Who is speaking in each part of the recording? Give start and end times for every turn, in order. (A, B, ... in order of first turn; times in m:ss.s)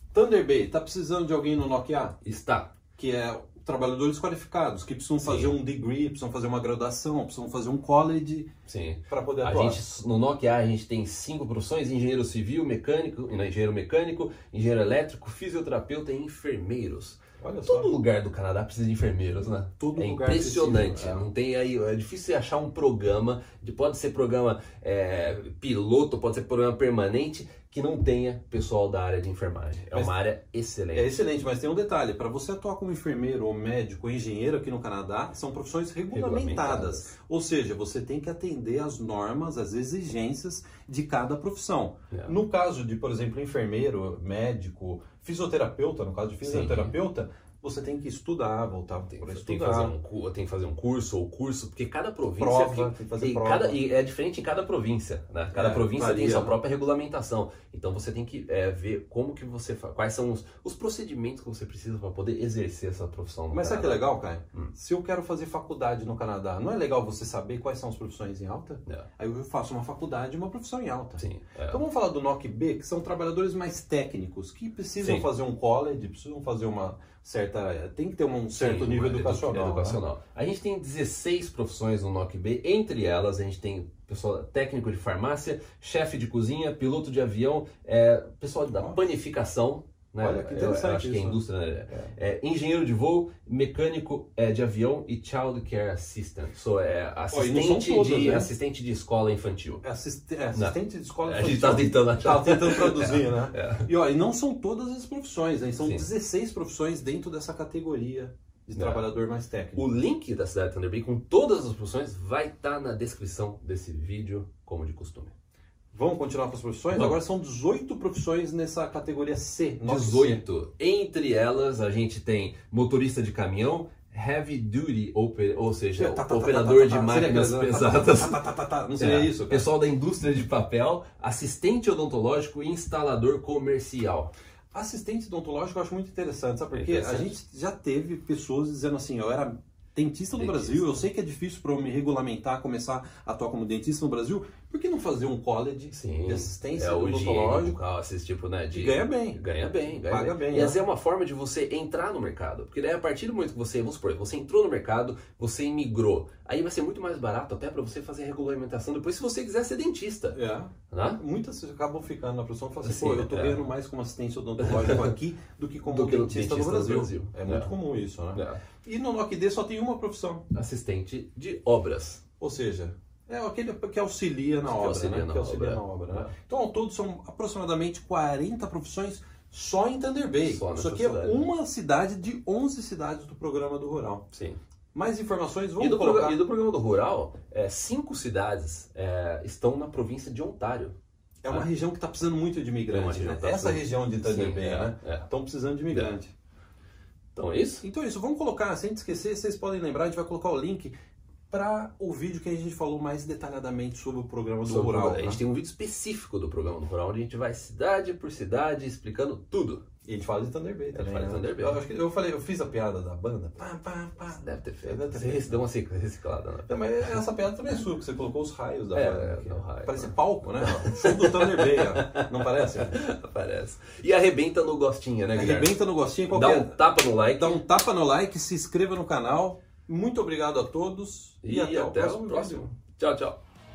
0:00.1-0:02.2 A
0:02.2-0:02.7 B
0:03.0-0:08.5 A
0:05.2-0:05.5 B
0:08.7-0:31.2 B
0:09.1-0:09.8 A
0:17.4-0:17.9 A
0:19.8-0:21.3 A
0:30.9-0:49.9 A
0:36.1-0:37.1 B
0:46.4-0:47.0 B
0:49.1-1:04.7 B
0:52.4-0:53.8 A
0:55.5-0:56.6 A
1:03.5-1:20.0 A
1:11.2-1:11.8 B
1:15.0-1:15.3 B
1:18.5-1:39.8 B
1:30.2-1:32.1 A
1:37.3-1:38.5 A
1:39.8-1:50.0 A
1:40.5-1:43.9 B
1:45.8-1:46.1 B
1:48.8-1:49.1 B
1:49.8-1:55.3 B
1:55.9-2:00.4 A
1:56.9-1:57.2 B
1:59.8-2:08.4 B
2:06.0-2:09.7 A
2:09.0-2:14.3 B
2:14.7-2:27.8 A
2:16.7-2:17.3 B
2:20.3-2:21.1 B
2:25.9-2:40.4 B
2:28.7-2:29.4 A
2:30.1-2:30.8 A
2:40.3-2:50.4 A
2:40.9-2:41.2 B
2:42.8-2:43.6 B
2:44.6-2:45.1 B
2:45.8-2:47.7 B
2:48.3-2:48.6 B
2:50.5-2:52.2 B
2:52.4-3:04.2 A
2:54.6-2:56.3 B
3:00.4-3:01.5 B
3:04.3-3:04.6 B
3:04.9-3:06.4 A
3:05.8-3:11.0 B
3:11.4-3:16.3 A
3:12.9-3:15.3 B
3:17.3-3:17.8 B
3:17.8-3:20.9 A
3:21.5-3:25.4 A
3:24.6-3:29.8 B
3:30.0-3:35.6 A
3:30.9-3:31.8 B
3:34.2-3:37.2 B
3:36.7-3:43.0 A
3:38.9-3:47.6 B
3:45.3-3:52.7 A
3:51.4-3:53.4 B